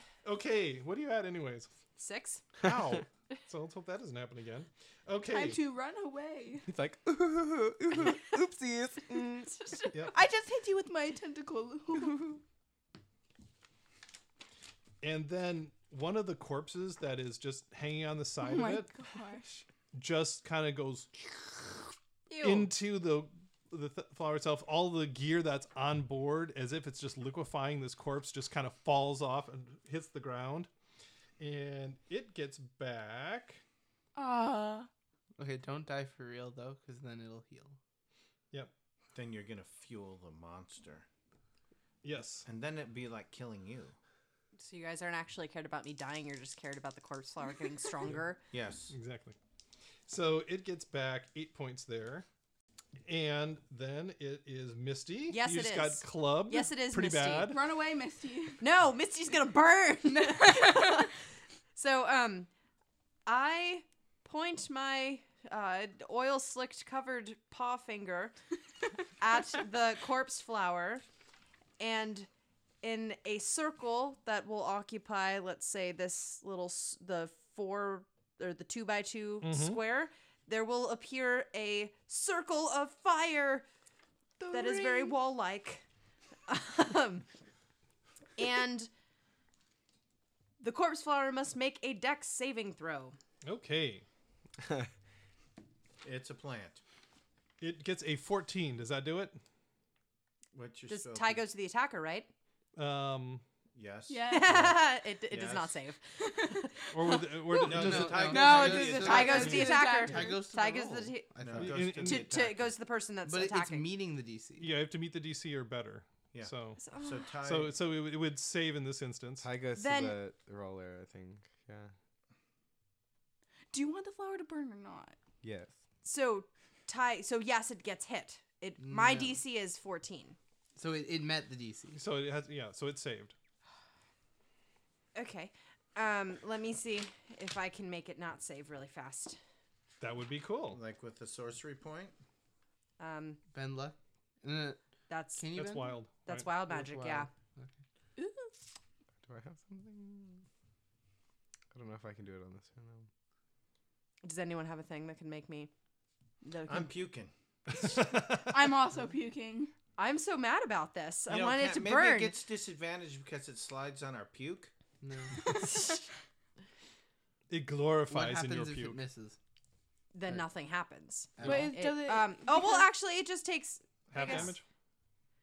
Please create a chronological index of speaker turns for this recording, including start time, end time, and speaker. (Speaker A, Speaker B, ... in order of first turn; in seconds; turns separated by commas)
Speaker A: 0.2-1.7, Speaker B: 2.0-2.5, Speaker A: 2.6-5.6, Speaker C: 2.7-3.0, Speaker D: 5.3-6.7, Speaker C: 6.7-9.6, Speaker B: 9.4-10.0, Speaker D: 10.1-12.4, Speaker A: 15.0-18.9, Speaker D: 18.4-19.6, Speaker A: 19.9-30.7, Speaker B: 22.3-22.7, Speaker A: 31.4-33.6, Speaker D: 34.1-34.9, Speaker E: 35.4-37.8, Speaker F: 39.1-41.1, Speaker A: 42.0-42.5, Speaker F: 42.5-44.0, Speaker B: 44.6-48.4, Speaker F: 48.5-48.9, Speaker A: 48.9-49.4, Speaker A: 50.1-52.3, Speaker A: 53.1-57.6, Speaker B: 55.3-57.6, Speaker D: 57.4-58.6, Speaker B: 58.6-61.2, Speaker D: 60.1-61.1, Speaker B: 61.8-62.5, Speaker B: 63.3-68.4, Speaker B: 69.2-71.0, Speaker B: 71.8-72.3, Speaker B: 72.8-83.7, Speaker A: 79.4-79.8, Speaker D: 84.4-85.2, Speaker B: 84.5-85.9, Speaker B: 86.5-87.3, Speaker B: 88.4-88.9, Speaker B: 90.6-93.2, Speaker A: 93.4-94.0, Speaker C: 94.6-94.9, Speaker F: 96.0-96.8, Speaker A: 97.6-99.4, Speaker F: 100.5-101.4, Speaker B: 100.9-102.3, Speaker A: 102.8-103.4, Speaker F: 103.7-104.8, Speaker D: 104.1-104.6, Speaker B: 104.3-107.2, Speaker F: 105.3-105.8, Speaker D: 106.2-110.5, Speaker A: 106.9-108.7, Speaker F: 107.7-109.7, Speaker E: 107.7-112.5, Speaker B: 108.8-111.3, Speaker F: 111.4-112.6, Speaker A: 111.6-112.4, Speaker B: 112.0-113.9, Speaker E: 113.2-114.7, Speaker A: 114.6-116.8, Speaker F: 116.3-117.8, Speaker B: 116.8-117.3, Speaker A: 117.4-119.5, Speaker C: 119.4-121.9, Speaker B: 119.8-120.2, Speaker D: 123.7-125.2, Speaker C: 125.4-125.8, Speaker B: 126.0-130.4, Speaker E: 128.8-129.4, Speaker E: 130.8-132.0, Speaker A: 131.9-133.3, Speaker B: 135.2-139.4, Speaker A: 140.0-140.8, Speaker F: 140.7-142.2, Speaker B: 143.0-143.4, Speaker E: 143.5-144.8, Speaker B: 145.1-145.4, Speaker E: 145.4-145.9, Speaker A: 145.5-146.5, Speaker B: 146.3-147.3, Speaker E: 146.7-147.7, Speaker D: 148.2-148.5, Speaker C: 149.2-150.4, Speaker C: 151.7-153.1, Speaker B: 154.2-155.7, Speaker B: 156.4-157.0, Speaker F: 156.7-157.3, Speaker A: 157.7-158.7, Speaker D: 158.4-159.7, Speaker B: 160.0-162.4, Speaker F: 161.3-164.7, Speaker E: 165.0-165.5, Speaker B: 165.6-166.0, Speaker A: 167.5-169.0, Speaker E: 168.1-169.4, Speaker B: 170.1-174.6, Speaker E: 171.4-171.7, Speaker D: 171.4-172.9, Speaker A: 174.1-174.6